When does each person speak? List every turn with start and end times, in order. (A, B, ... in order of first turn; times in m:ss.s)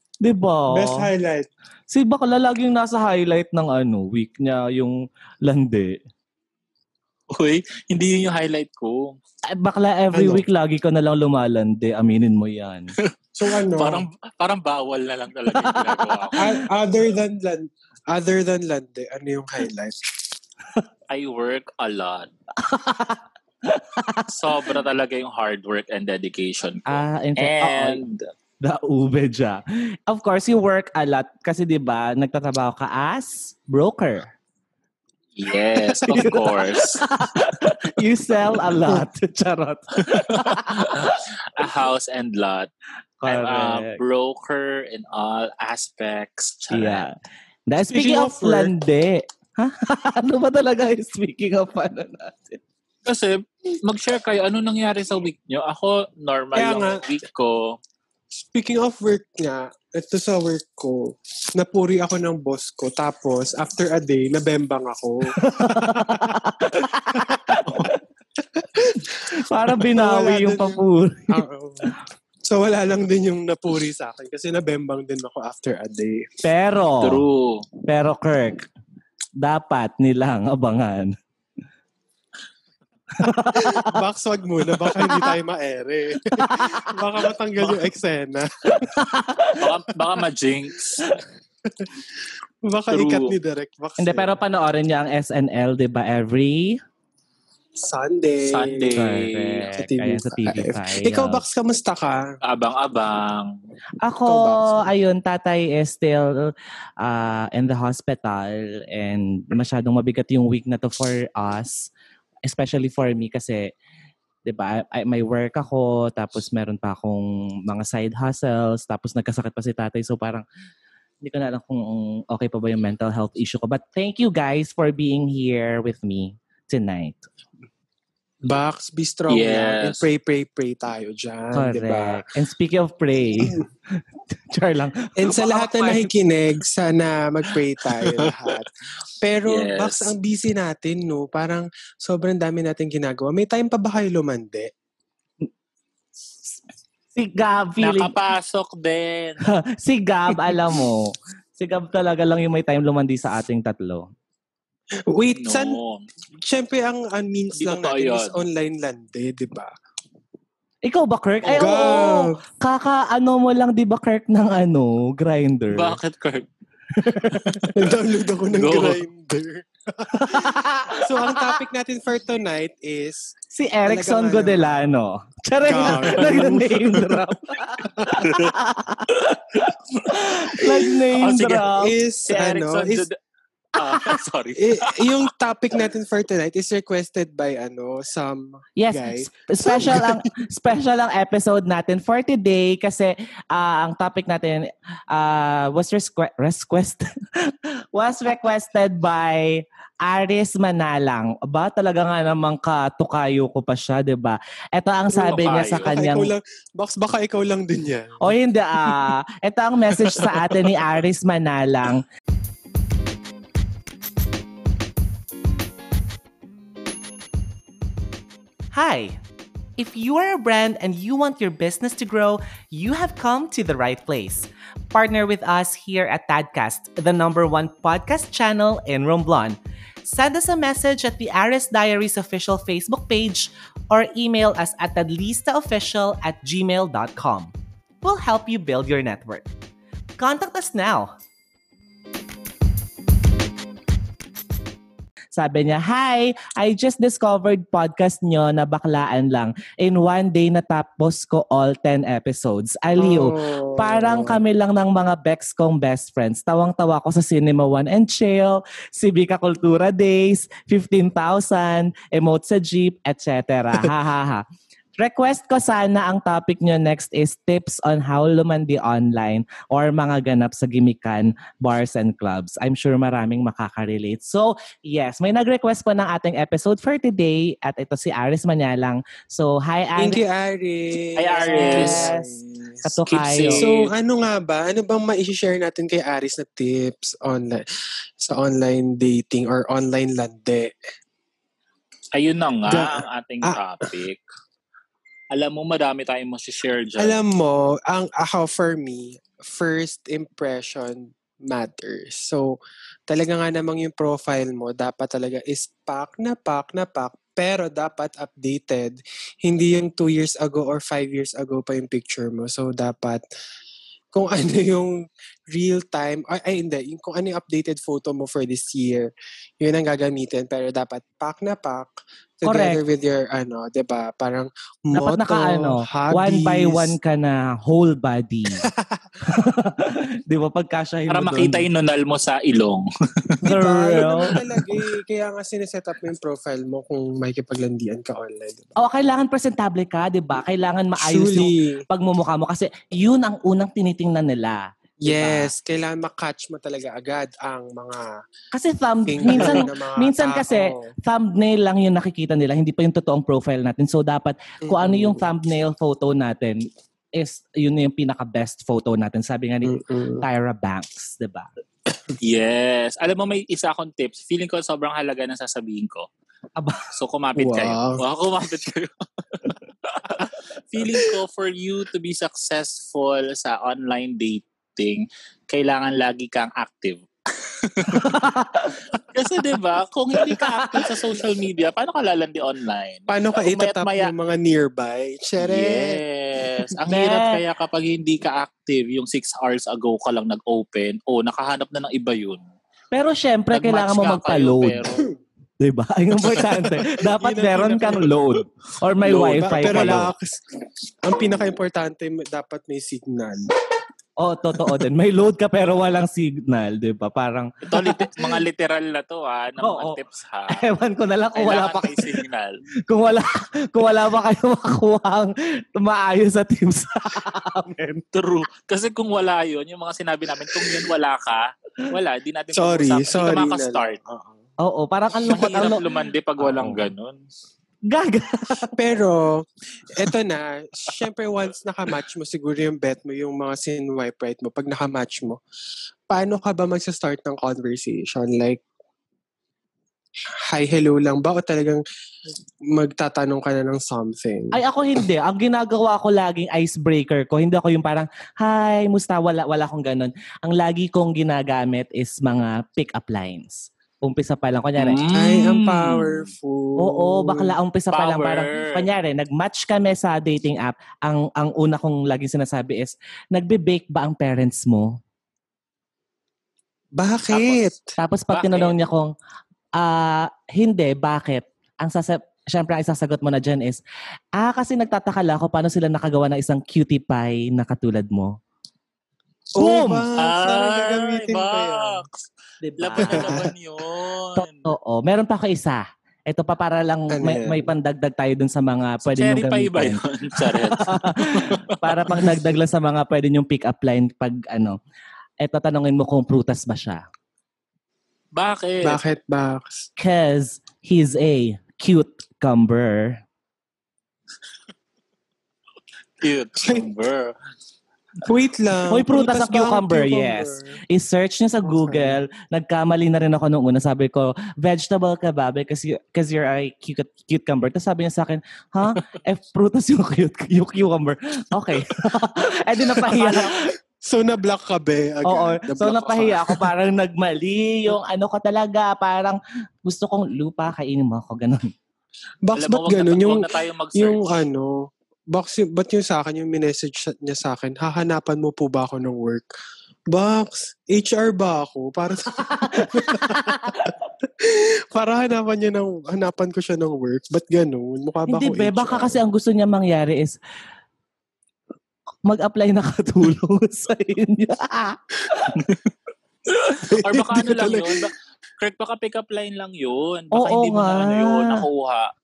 0:00.2-0:01.1 A
0:00.7-0:01.5 B
0:01.9-0:06.0 A
0:07.3-0:09.2 C
0:09.5-0:12.9 A
0:10.1-0:10.5 B
0:13.4-0:14.0 B
0:13.4-0:16.4 C
0:15.5-0:16.6 A
0:16.3-0:20.3 B
0:21.1-0:22.3 C
0:22.6-0:24.7 A
0:24.3-0:28.2 C
0:26.8-0:28.0 A
0:28.6-0:34.3 A
0:35.4-0:37.0 C
0:36.0-0:41.2 A
0:40.1-0:42.7 C
0:43.2-0:44.0 A
0:43.2-0:47.0 C
0:46.7-0:47.1 A
0:47.7-0:52.6 A
0:47.9-0:48.7 B
0:53.0-0:57.8 C
0:56.5-0:57.0 B
0:58.3-1:06.4 B
1:05.3-1:08.0 A
1:07.1-1:07.6 B
1:08.5-1:09.1 B
1:09.3-1:11.4 A
1:09.8-1:11.9 B
1:12.4-1:16.3 B
1:16.4-1:17.2 A
1:17.0-1:17.7 C
1:17.8-1:18.7 A
1:19.4-1:21.1 A
1:23.2-1:23.9 A
1:23.5-1:28.9 B
1:24.8-1:25.3 A
1:26.4-1:27.0 A
1:28.7-1:29.7 A
1:29.6-1:31.0 C
1:31.6-1:32.0 B
1:32.6-1:34.4 B
1:32.9-1:33.3 C
1:34.0-1:36.8 A
1:37.8-1:39.2 B
1:38.5-1:39.6 C
1:39.0-1:41.4 A
1:39.7-1:42.3 B
1:42.4-1:43.6 C
1:44.0-1:51.9 A
1:44.2-1:44.9 B
1:52.4-1:53.7 A
1:54.4-2:00.4 A
2:01.2-2:07.2 A
2:08.4-2:12.3 B
2:09.3-2:10.0 C
2:11.5-2:16.1 A
2:13.3-2:13.6 B
2:15.2-2:24.7 B
2:17.9-2:18.6 C
2:19.4-2:20.1 C
2:27.1-2:28.1 A
2:27.8-2:29.4 C
2:29.5-2:34.1 A
2:35.1-2:35.8 B
2:35.4-2:36.0 C
2:36.4-2:39.7 B
2:37.6-2:38.4 C
2:40.8-2:46.0 A
2:41.4-2:42.4 B
2:45.7-2:46.4 C
2:47.0-2:47.7 A
2:47.2-2:47.8 C
2:47.7-2:53.3 B
2:48.4-2:49.0 C
2:50.1-2:51.5 A
2:53.5-3:01.9 A
2:53.9-2:54.8 B
2:55.6-2:57.2 B
2:57.8-2:58.2 B
3:01.1-3:03.2 C
3:01.7-3:03.0 B
3:03.8-3:05.3 C
3:03.8-3:04.2 A
3:04.6-3:10.2 B
3:08.8-3:26.3 A
3:25.1-3:26.0 C
3:25.8-3:28.3 B
3:28.2-3:32.0 A
3:38.7-3:39.2 A
3:39.8-3:59.5 A
4:00.2-4:01.1 A
4:05.3-4:24.4 A
4:13.0-4:14.4 B
4:25.0-4:40.2 A
4:40.0-4:42.7 B
4:41.2-4:42.1 C
4:41.4-4:43.7 A
4:43.0-4:43.9 C
4:43.5-4:47.6 B
4:48.2-4:50.7 B
4:52.1-4:54.2 C
4:52.7-4:53.6 B
4:55.3-4:57.2 C
4:57.0-5:02.6 B
5:03.1-5:13.2 B
5:14.1-5:27.0 B
5:22.4-5:22.8 A
5:24.9-5:28.7 A
5:28.6-5:29.0 B
5:29.2-5:31.6 A
5:31.1-5:33.4 C
5:33.4-5:38.8 B
5:33.5-5:34.3 A
5:38.8-5:45.5 A
5:41.0-5:41.8 B
5:45.0-5:48.1 B
5:48.5-6:01.5 A
5:49.1-5:50.9 B
5:54.6-5:55.2 B
5:59.6-6:00.2 B
6:02.2-6:06.1 C
6:06.6-6:06.9 A
6:06.9-6:18.0 C
6:07.3-6:08.0 B
6:17.9-6:18.8 A
6:19.1-6:24.1 C
6:20.2-6:20.9 A
6:23.1-6:26.0 B
6:25.4-6:32.4 C
6:26.9-6:27.4 A
6:32.9-6:34.8 A
6:33.5-6:35.1 C
6:35.6-6:40.1 A
6:37.2-6:38.3 B
6:39.1-6:40.4 B
6:39.1-6:40.1 C
6:41.0-6:43.5 B
6:44.2-6:48.3 A
6:47.7-6:50.6 C
6:49.6-6:52.2 A
6:51.4-6:52.6 C
6:52.9-6:58.0 A
6:58.1-7:04.0 C
7:02.5-7:04.4 B
7:04.6-7:05.8 A
7:05.3-7:07.2 C
7:06.4-7:06.9 A
7:07.9-7:08.7 A
7:08.6-7:15.4 B
7:16.1-7:18.6 B
7:20.5-7:21.8 B
7:22.7-7:24.6 B
7:24.5-7:35.0 A
7:34.8-7:36.2 C
7:35.1-7:37.6 B
7:36.8-7:45.0 A
7:37.9-7:38.8 C
7:47.0-7:47.9 B
7:47.3-7:47.7 C
7:48.0-7:49.1 A
7:48.3-7:48.8 C
7:49.8-7:53.8 A
7:54.4-7:58.4 A
7:59.6-8:02.0 B
7:59.6-8:00.1 A
8:00.2-8:02.2 C
8:02.6-8:03.4 A
8:02.8-8:04.7 C
8:03.0-8:03.5 B
8:04.4-8:14.8 A
8:07.1-8:07.7 B
8:09.1-8:12.2 C
8:15.4-8:17.0 A
8:18.3-8:19.0 C
8:18.8-8:19.9 B
8:20.0-8:23.2 A
8:26.2-8:27.3 C
8:26.6-8:26.9 B
8:28.2-8:30.8 B
8:28.9-8:43.6 A
8:31.6-8:32.2 B
8:43.0-8:46.7 B
8:45.2-8:51.7 A
8:52.4-8:59.5 B
8:52.5-8:54.4 C
9:00.1-9:09.2 B
9:02.4-9:03.9 A
9:08.3-9:10.4 A
9:12.2-9:15.6 A
9:16.6-9:22.1 C
9:16.8-9:18.1 B
9:20.3-9:21.6 A